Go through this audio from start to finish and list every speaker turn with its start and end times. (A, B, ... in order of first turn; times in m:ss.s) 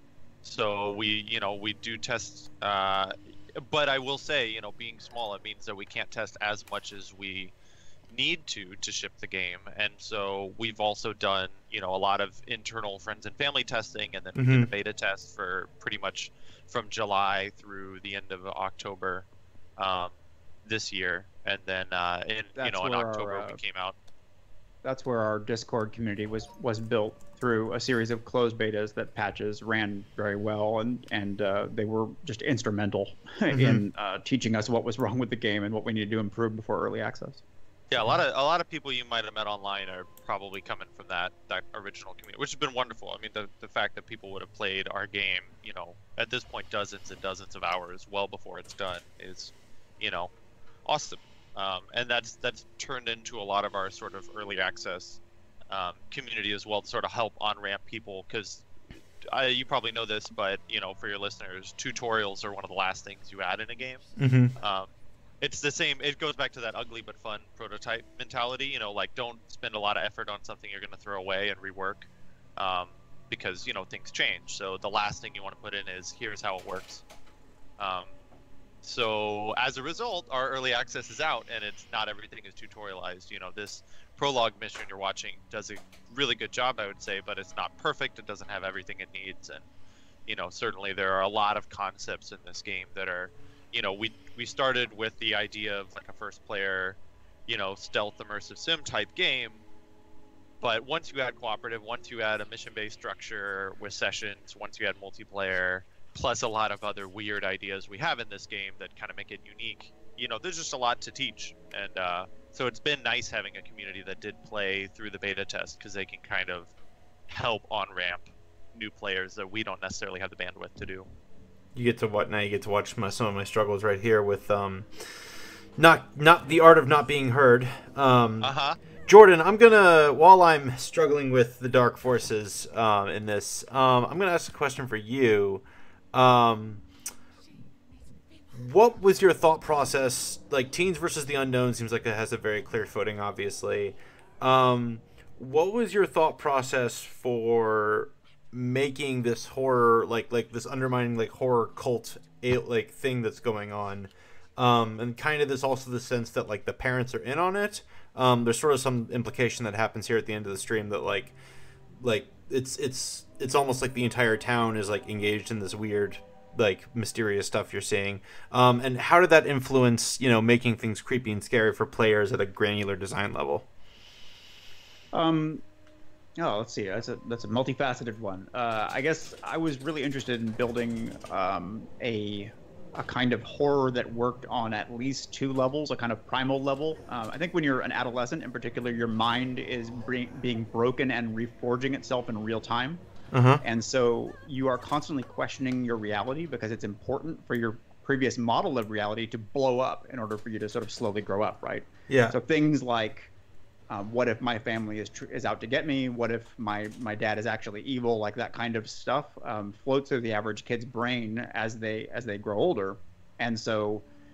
0:00.4-0:07.5 A
0:08.1-0:19.2 A
0:14.4-0:14.7 B
0:19.8-0:20.1 A
0:20.6-0:24.0 A
0:22.6-0:23.6 C
0:24.8-0:37.4 C
0:33.5-0:33.8 B
0:37.9-0:50.3 A
0:50.8-0:58.6 A
0:59.2-1:04.0 A
1:04.2-1:04.5 B
1:04.6-1:04.9 A
1:05.4-1:17.0 A
1:17.8-1:18.1 A
1:18.8-1:29.7 A
1:30.3-1:39.6 A
1:40.6-1:56.7 A
1:57.3-2:01.1 A
2:01.7-2:08.5 B
2:08.4-2:08.8 A
2:09.1-2:16.8 B
2:18.5-2:41.3 B
2:42.0-2:53.6 B
2:55.1-2:55.6 C
2:56.4-3:13.0 C
3:13.3-3:13.6 B
3:13.6-3:23.3 C
3:22.1-3:22.4 B
3:23.9-3:34.0 C